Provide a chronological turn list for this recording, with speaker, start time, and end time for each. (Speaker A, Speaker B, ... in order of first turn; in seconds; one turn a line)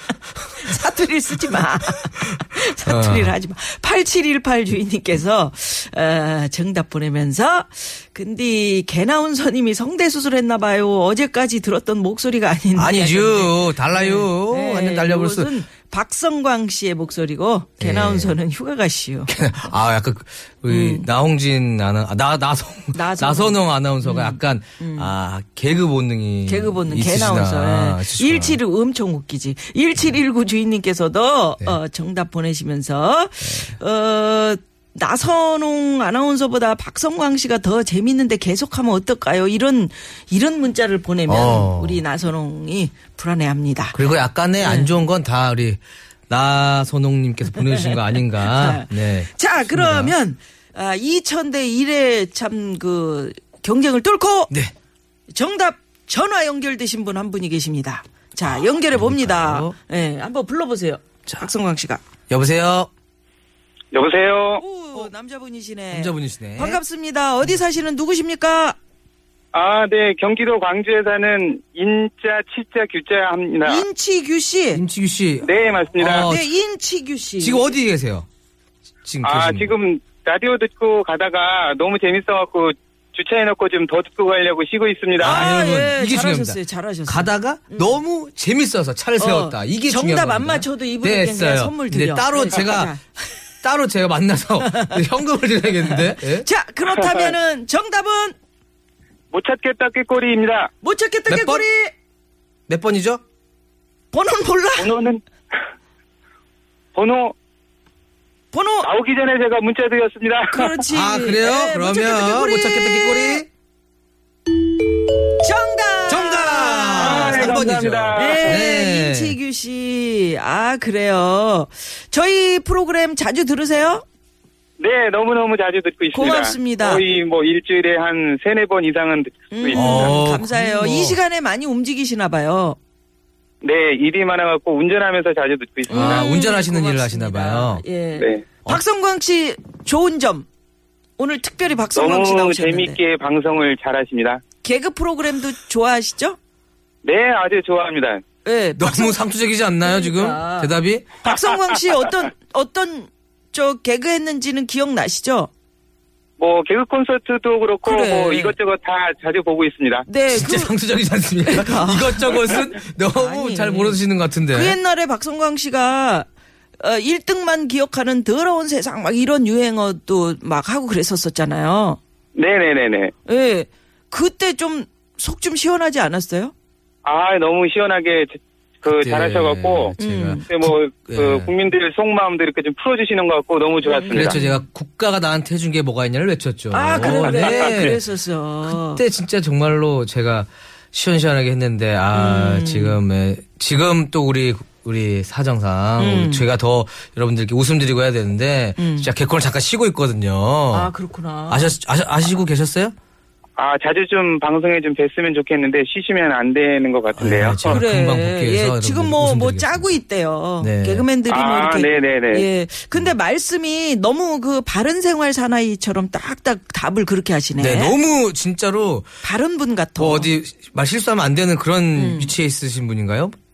Speaker A: 0.5-19.3
Speaker B: 2.8-3.3
Speaker B: 12.8-15.5
Speaker B: 17.8-18.4
Speaker B: 19.3-28.6
Speaker A: 20.7-21.1
Speaker A: 22.9-25.1
Speaker A: 26.4-44.0
Speaker B: 41.3-42.0
Speaker B: 43.9-50.1
Speaker A: 44.6-45.0
Speaker A: 47.6-54.5
Speaker A: 55.3-62.0
Speaker B: 58.5-59.8
Speaker B: 62.3-62.9
Speaker C: 63.9-64.6
Speaker A: 64.6-68.8
Speaker B: 65.9-66.8
Speaker C: 69.5-73.8
Speaker A: 73.6-74.8
Speaker B: 74.7-76.5
Speaker C: 75.4-76.3
Speaker A: 76.2-77.7
Speaker B: 77.4-78.2
Speaker B: 79.0-79.7
Speaker C: 79.2-85.4
Speaker B: 85.2-92.9
Speaker A: 85.2-88.0
Speaker A: 89.2-93.0
Speaker B: 93.6-96.5
Speaker A: 94.6-95.0
Speaker A: 95.8-98.3
Speaker C: 96.8-97.3
Speaker C: 99.3-100.7
Speaker A: 100.8-101.9
Speaker B: 101.3-101.6
Speaker B: 102.7-103.2
Speaker A: 104.1-105.0
Speaker C: 104.8-105.2
Speaker C: 106.9-107.3
Speaker A: 108.5-108.9
Speaker C: 108.8-110.8
Speaker A: 110.5-113.4
Speaker B: 110.9-113.5
Speaker A: 115.3-124.0
Speaker B: 116.0-119.3
Speaker C: 116.9-118.6
Speaker C: 124.8-130.2
Speaker A: 126.1-127.0
Speaker A: 129.5-132.8
Speaker B: 129.7-131.2
Speaker C: 133.6-136.2
Speaker B: 135.9-137.8
Speaker A: 135.9-140.5
Speaker C: 138.1-138.4
Speaker A: 141.2-143.0
Speaker C: 141.9-144.4
Speaker A: 144.6-146.4
Speaker C: 147.0-148.2
Speaker A: 148.4-149.2
Speaker B: 148.8-151.1
Speaker A: 149.8-155.5
Speaker C: 156.4-160.1
Speaker A: 157.8-158.5
Speaker A: 160.1-160.7
Speaker B: 160.3-164.8
Speaker A: 161.4-166.3
Speaker A: 166.8-172.0
Speaker C: 172.3-173.1
Speaker A: 173.2-176.5
Speaker C: 177.0-179.9
Speaker B: 178.9-181.5
Speaker A: 180.0-180.4
Speaker C: 180.5-184.4
Speaker A: 183.8-184.6
Speaker B: 184.1-188.0
Speaker A: 186.7-189.0
Speaker C: 186.9-188.0
Speaker B: 188.7-200.9
Speaker A: 192.1-193.0
Speaker A: 196.0-196.4
Speaker A: 198.8-199.1
Speaker A: 200.7-201.7
Speaker B: 201.5-202.9
Speaker C: 203.6-207.8
Speaker B: 207.2-210.0
Speaker A: 207.6-218.0
Speaker B: 210.6-211.1
Speaker C: 211.3-212.5
Speaker B: 217.6-219.1
Speaker A: 219.2-220.3
Speaker B: 220.0-223.3
Speaker A: 221.9-222.3